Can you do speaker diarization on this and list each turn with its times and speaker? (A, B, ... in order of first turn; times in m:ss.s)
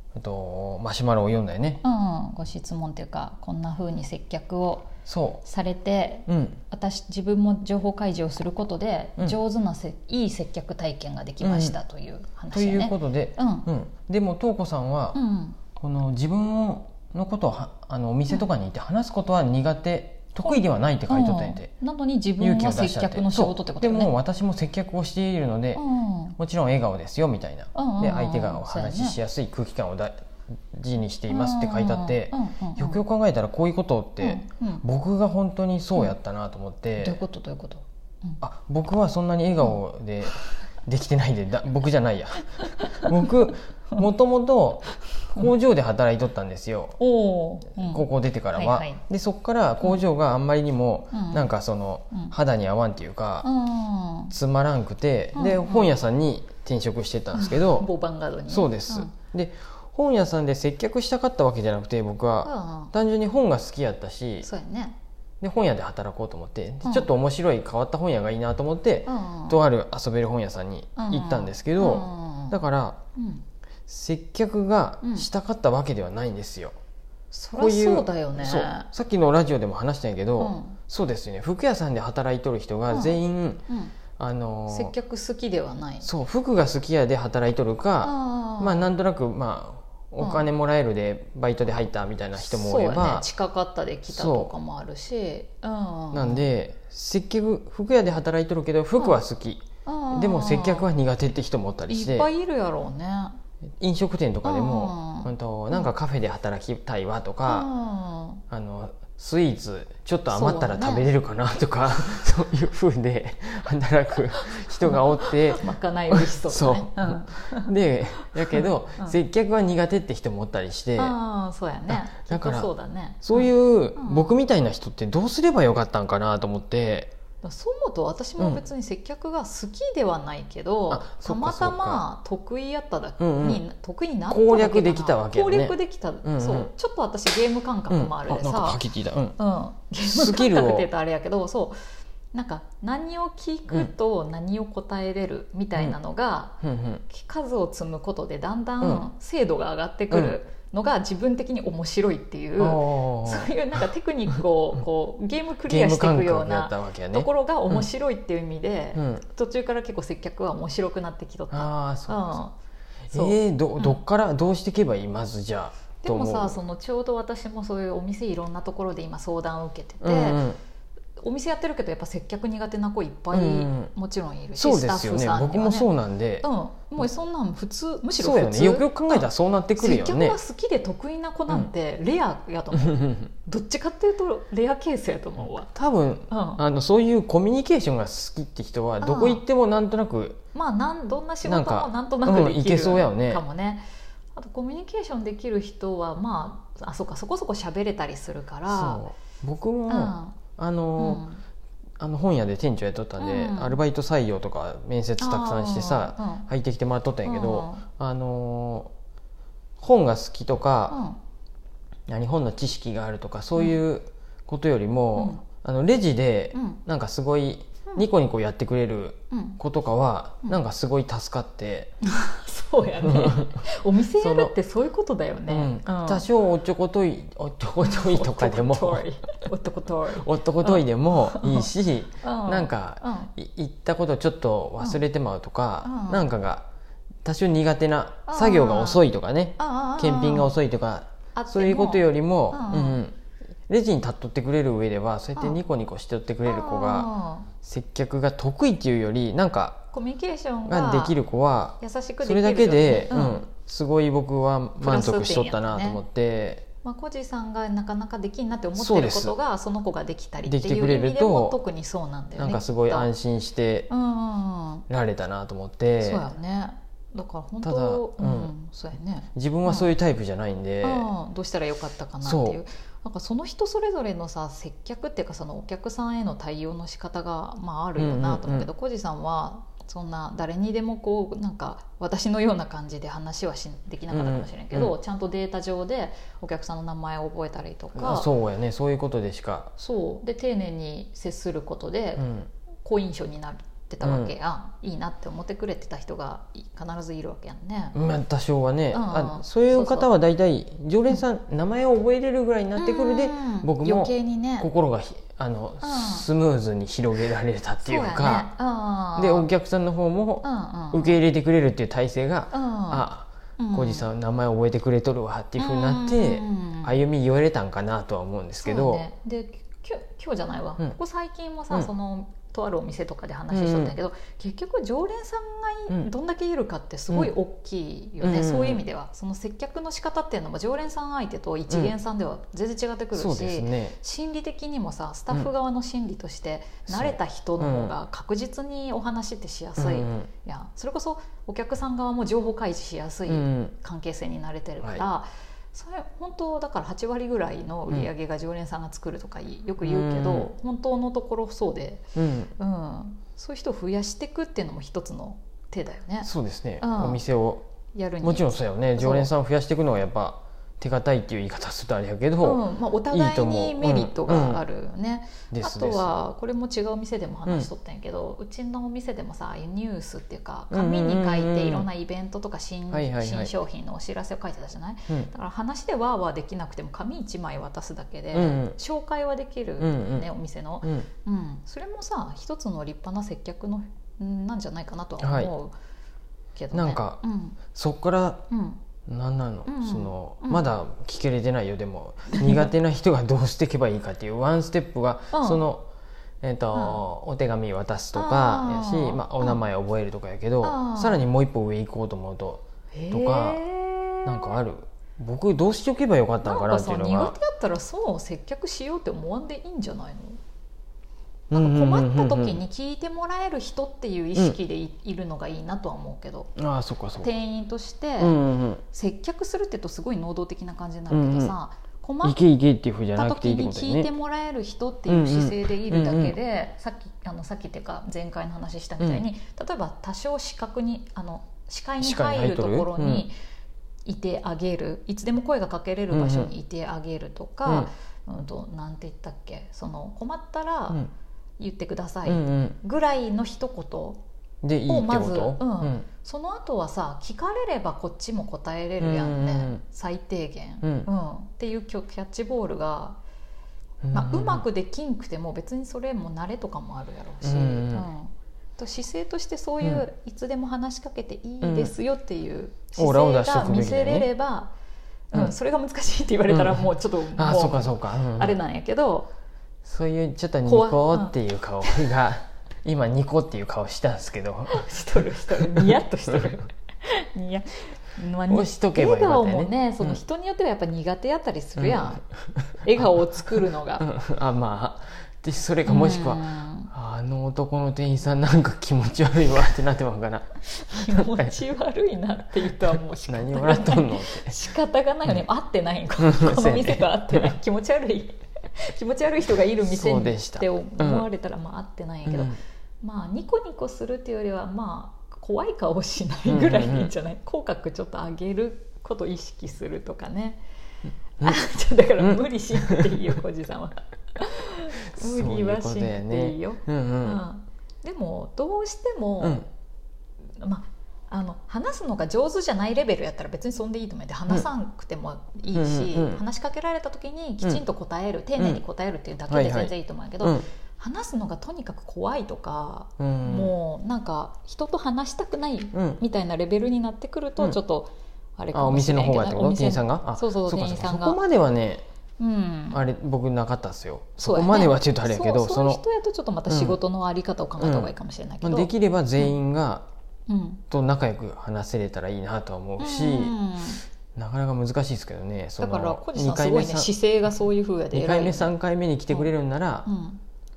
0:00.2-0:01.8 A
0:01.8-0:04.9 B
0:05.1-0:05.4 A
0:05.4-0:13.7 B
0:06.3-0:06.6 A
0:11.4-0:11.8 A
0:12.5-0:15.2 A
0:15.1-0:15.6 B
0:15.8-0:21.7 A
0:20.4-0:24.1 B
0:22.4-0:25.8 A
0:25.8-0:26.4 B
0:26.4-0:37.2 A
0:27.7-0:29.2 B
0:31.3-0:33.0 B
0:34.2-0:34.8 B
0:37.0-0:38.4 B
0:38.4-0:47.0 A
0:42.6-0:43.1 B
0:47.0-0:49.0 B
0:47.8-0:53.5 A
0:51.1-0:51.5 B
0:53.4-0:54.3 B
0:54.3-0:57.9 A
0:55.3-0:55.9 B
0:57.3-0:59.1 B
0:58.5-1:04.5 A
1:02.4-1:02.9 B
1:04.4-1:05.0 B
1:05.4-1:13.0 A
1:06.8-1:07.1 B
1:09.1-1:09.6 B
1:11.0-1:12.6 B
1:13.2-1:13.4 B
1:13.9-1:16.8 A
1:15.0-1:15.3 B
1:17.3-1:18.9 B
1:17.6-1:23.6 A
1:20.4-1:20.8 B
1:22.9-1:23.9 B
1:24.2-1:24.9 A
1:24.7-1:26.1 B
1:26.0-1:33.3 A
1:28.0-1:28.9 B
1:30.2-1:30.5 B
1:32.4-1:36.4 B
1:34.1-1:34.5 A
1:36.1-1:42.3 A
1:39.8-1:40.9 B
1:41.9-1:43.4 B
1:43.8-1:47.7 A
1:44.4-1:45.9 B
1:47.5-1:48.4 B
1:48.5-2:01.2 A
1:50.3-1:51.1 B
1:54.8-1:59.2 B
2:01.0-2:04.4 B
2:01.9-2:02.7 A
2:03.2-2:07.1 A
2:07.4-2:18.8 B
2:10.9-2:12.0 A
2:13.2-2:13.6 A
2:14.3-2:16.7 A
2:17.9-2:19.4 A
2:19.4-2:21.8 B
2:20.0-2:20.9 A
2:22.3-2:26.6 B
2:26.6-2:27.0 A
2:27.1-2:42.6 B
2:30.1-2:30.4 A
2:32.6-2:33.5 A
2:35.7-2:37.8 A
2:39.0-2:39.2 A
2:41.5-2:42.4 A
2:43.1-2:44.0 B
2:43.1-2:46.6 A
2:46.0-2:50.4 B
2:50.0-2:50.6 A
2:51.2-2:55.9 B
2:53.3-2:53.9 A
2:54.6-2:56.5 A
2:56.4-3:05.7 B
2:58.2-3:00.4 A
3:05.8-3:10.4 A
3:06.3-3:06.6 B
3:09.0-3:09.4 B
3:10.5-3:19.0 B
3:11.4-3:13.4 A
3:18.7-3:21.2 A
3:19.9-3:20.4 B
3:21.0-3:21.4 B
3:22.0-3:28.9 A
3:23.2-3:23.8 B
3:25.2-3:26.5 B
3:27.2-3:27.8 B
3:29.8-3:31.0 A
3:30.9-3:31.2 B
3:32.1-3:41.9 A
3:35.2-3:35.4 B
3:36.5-3:36.8 B
3:39.3-3:39.6 B
3:42.0-3:46.3 B
3:43.0-3:43.5 A
3:44.2-3:44.5 A
3:45.5-3:49.0 A
3:47.8-3:51.7 B
3:50.2-3:56.7 A
3:52.2-3:53.3 B
3:55.8-3:56.3 B
3:57.2-4:03.2 A
3:58.3-3:59.0 B
3:59.6-4:00.6 B
4:01.4-4:03.0 B
4:03.7-4:09.9 A
4:06.4-4:07.5 B
4:09.9-4:11.2 B
4:10.7-4:16.7 A
4:11.8-4:13.4 B
4:14.8-4:16.0 B
4:16.8-4:23.1 B
4:18.8-4:19.4 A
4:20.4-4:21.6 A
4:22.4-4:23.9 A
4:23.9-4:24.9 B
4:24.9-4:26.3 A
4:26.0-4:29.9 B
4:27.6-4:28.5 A
4:29.4-4:31.1 A
4:30.8-4:48.3 B
4:32.2-4:32.6 A
4:38.0-4:38.7 A
4:44.1-4:45.0 A
4:48.0-4:49.7 A
4:49.8-4:52.3 B
4:52.2-4:52.5 A
4:52.8-4:58.0 B
4:54.0-4:54.4 A
4:57.9-5:08.5 A
4:58.9-5:00.1 B
5:02.8-5:04.7 B
5:05.8-5:06.3 B
5:07.8-5:09.5 B
5:09.2-5:19.1 A
5:10.4-5:11.2 B
5:12.5-5:14.1 B
5:15.6-5:17.0 B
5:18.6-5:57.2 B
5:23.5-5:23.9 A
5:28.2-5:28.8 A
5:31.7-5:31.9 A
5:33.1-5:34.0 A
5:36.9-5:37.9 A
5:39.8-5:40.3 A
5:43.3-5:43.7 A
5:49.8-5:50.5 A
5:52.2-5:52.5 A
5:56.2-5:57.6 A
5:57.9-5:59.3 B
5:58.2-6:04.6 A
6:02.4-6:25.8 B
6:05.5-6:06.1 A
6:10.7-6:11.9 A
6:12.9-6:13.5 A
6:18.3-6:18.8 A
6:19.8-6:20.3 A
6:25.2-6:25.5 A
6:26.6-6:27.6 B
6:26.7-6:27.2 A
6:27.7-6:28.4 A
6:28.5-6:28.8 B
6:29.1-6:35.9 A
6:29.7-6:30.7 B
6:35.3-6:35.6 B
6:36.4-6:43.6 A
6:36.7-6:37.0 B
6:38.2-6:39.6 B
6:40.6-6:41.2 B
6:42.9-6:44.6 B
6:44.2-6:47.4 A
6:46.4-6:50.4 B
6:51.5-6:52.6 A
6:51.5-6:56.5 B
6:56.6-6:57.3 A
6:57.2-6:58.4 B
6:58.2-6:58.8 A
6:58.9-7:02.4 B
7:01.1-7:01.6 A
7:02.2-7:04.1 A
7:03.2-7:13.4 B
7:05.1-7:06.3 A
7:09.0-7:09.3 A
7:12.0-7:13.3 A
7:14.1-7:21.1 B
7:16.1-7:16.5 A
7:21.6-7:24.2 B
7:22.2-7:22.8 A
7:24.6-7:26.1 A
7:24.9-7:33.2 B
7:29.0-7:29.8 A
7:30.8-7:31.1 A
7:34.0-7:34.6 A
7:34.1-7:44.7 B
7:37.4-7:38.1 A
7:41.6-7:41.9 A
7:43.0-7:44.3 A
7:45.3-7:49.3 B
7:46.5-7:48.6 A
7:49.8-7:56.0 A
7:50.7-7:51.4 B
7:54.7-8:02.2 B
7:58.5-8:00.2 A
8:01.8-8:02.2 A
8:02.8-8:04.1 B
8:04.0-8:11.6 A
8:05.8-8:06.9 B
8:10.7-8:30.6 B
8:13.3-8:14.7 A
8:16.2-8:17.6 A
8:19.8-8:21.3 A
8:22.3-8:22.6 A
8:26.5-8:27.1 A
8:31.4-8:39.7 B
8:32.2-8:33.1 A
8:35.1-8:37.4 A
8:39.4-8:39.7 A
8:40.6-9:01.4 B
8:45.7-8:46.4 A
8:49.5-8:50.6 A
8:53.2-8:53.7 A
8:55.9-8:56.2 A
8:58.7-9:02.0 A
9:02.4-9:03.0 B
9:02.9-9:06.0 A
9:04.4-9:09.5 B
9:06.7-9:07.0 A
9:07.8-9:10.1 A
9:10.5-9:10.8 B
9:10.9-9:13.6 A
9:13.0-9:14.0 B
9:14.4-9:17.1 A
9:15.8-9:18.7 B
9:18.1-9:20.1 A
9:20.0-9:20.4 B